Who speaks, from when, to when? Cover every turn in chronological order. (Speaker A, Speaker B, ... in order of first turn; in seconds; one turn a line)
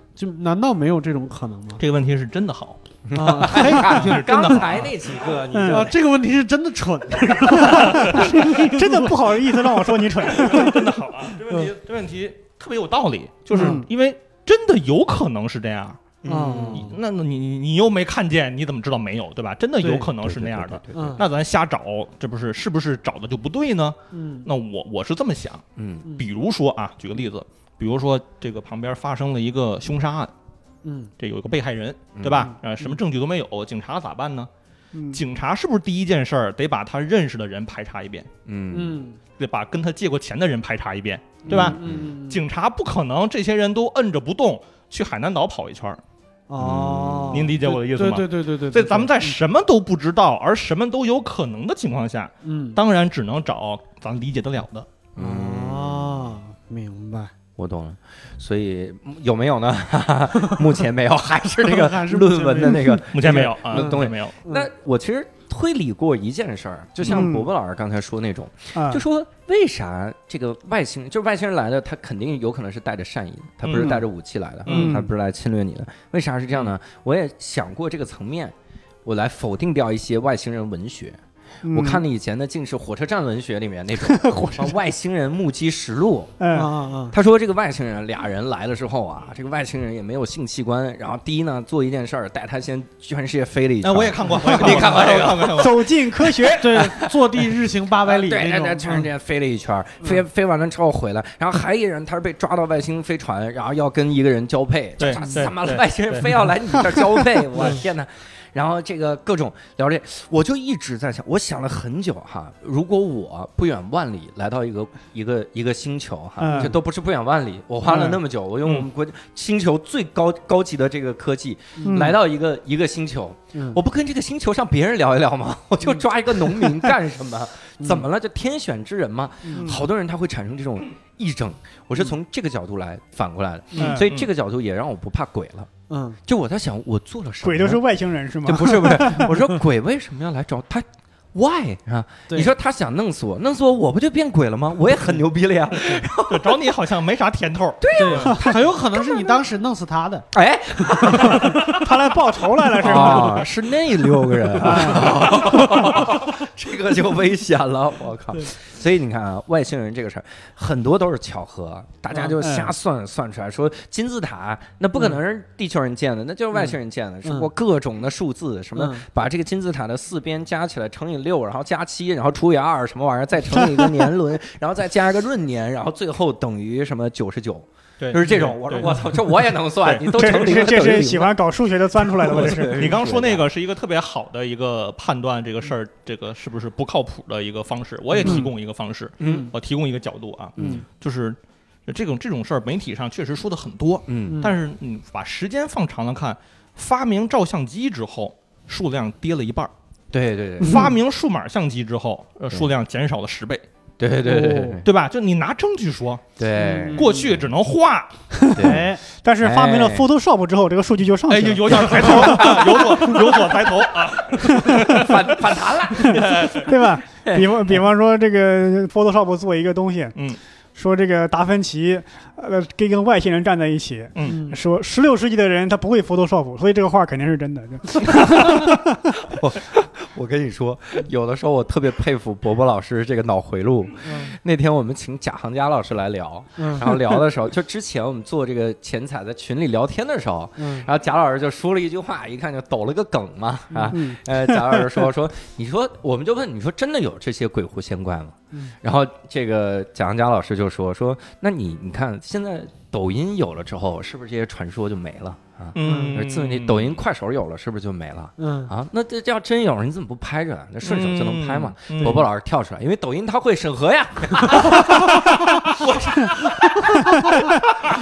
Speaker A: 0.1-1.8
Speaker B: 1.8-2.8
Speaker C: 3.0-5.9
Speaker A: 3.1-4.6
Speaker B: 3.4-4.9
Speaker D: 5.5-5.9
Speaker A: 5.6-9.1
Speaker D: 7.6-10.9
Speaker B: 7.9-8.3
Speaker B: 10.2-16.1
Speaker A: 13.5-13.8
Speaker D: 13.5-13.9
Speaker C: 16.2-16.9
Speaker A: 16.2-16.9
Speaker B: 16.7-25.6
Speaker A: 19.8-20.1
Speaker C: 20.1-21.2
Speaker A: 20.9-21.2
Speaker A: 24.1-24.5
Speaker C: 25.8-26.1
Speaker B: 26.1-30.3
Speaker A: 30.8-31.1
Speaker B: 31.2-34.5
Speaker C: 32.1-32.5
Speaker A: 32.4-33.0
Speaker D: 34.9-35.2
Speaker B: 35.1-38.3
Speaker C: 38.5-39.0
Speaker A: 38.7-39.2
Speaker B: 39.4-46.0
Speaker A: 41.4-42.4
Speaker C: 41.5-42.0
Speaker A: 46.5-49.4
Speaker C: 46.6-47.5
Speaker B: 47.3-54.9
Speaker A: 52.4-52.8
Speaker C: 55.1-56.3
Speaker A: 55.2-57.3
Speaker C: 57.6-86.4
Speaker A: 61.6-64.7
Speaker B: 63.1-64.3
Speaker D: 67.1-67.5
Speaker D: 68.7-69.0
Speaker B: 73.6-74.0
Speaker A: 74.7-75.0
Speaker D: 74.7-75.1
Speaker D: 81.6-82.0
Speaker D: 84.0-84.8
Speaker D: 86.4-86.7
Speaker A: 86.5-87.1
Speaker C: 87.1-97.2
Speaker B: 93.8-96.0
Speaker D: 94.4-96.9
Speaker A: 96.6-99.1
Speaker C: 98.0-135.7
Speaker B: 105.0-106.5
Speaker A: 105.2-105.5
Speaker D: 116.4-116.8
Speaker A: 117.8-118.2
Speaker A: 121.8-122.1
Speaker D: 121.8-122.2
Speaker A: 123.5-123.8
Speaker A: 127.8-128.1
Speaker D: 129.5-129.8
Speaker A: 133.7-134.0
Speaker D: 133.8-134.1
Speaker A: 135.9-136.2
Speaker C: 136.2-137.8
Speaker D: 137.4-139.4
Speaker C: 138.4-146.6
Speaker B: 146.3-148.3
Speaker C: 147.8-149.3
Speaker A: 147.9-151.6
Speaker D: 148.3-148.6
Speaker C: 150.3-152.1
Speaker D: 151.2-153.5
Speaker C: 152.8-181.3
Speaker B: 152.9-153.2
Speaker D: 154.3-155.9
Speaker A: 154.8-155.1
Speaker D: 162.4-162.7
Speaker A: 167.2-167.5
Speaker A: 168.8-169.0
Speaker B: 178.0-178.9
Speaker B: 179.8-180.8
Speaker D: 180.1-182.9
Speaker C: 182.0-183.5
Speaker B: 182.2-199.7
Speaker A: 188.2-188.5
Speaker C: 189.2-189.5
Speaker A: 189.2-189.5
Speaker C: 190.6-190.8
Speaker A: 190.6-190.8
Speaker C: 194.1-194.4
Speaker A: 194.2-194.6
Speaker C: 200.1-200.9
Speaker B: 200.6-203.6
Speaker A: 200.6-200.9
Speaker C: 204.0-204.9
Speaker A: 204.2-204.8
Speaker B: 204.8-206.2
Speaker C: 206.4-207.4
Speaker A: 206.6-207.3
Speaker B: 206.9-208.1
Speaker D: 208.3-213.3
Speaker C: 208.5-210.1
Speaker A: 208.6-209.0
Speaker B: 211.3-216.7
Speaker C: 211.7-213.2
Speaker C: 214.3-216.7
Speaker D: 214.5-215.2
Speaker D: 216.0-220.2
Speaker C: 217.2-217.8
Speaker D: 220.7-229.3
Speaker B: 224.1-224.4
Speaker A: 224.2-224.6
Speaker C: 228.1-267.9
Speaker A: 234.0-234.3
Speaker A: 236.6-236.9
Speaker A: 240.6-240.9
Speaker A: 243.7-243.9
Speaker D: 243.9-245.1
Speaker B: 255.7-256.9
Speaker A: 255.8-256.2
Speaker A: 258.4-258.7
Speaker B: 260.8-262.2
Speaker A: 262.0-262.3
Speaker A: 264.4-265.2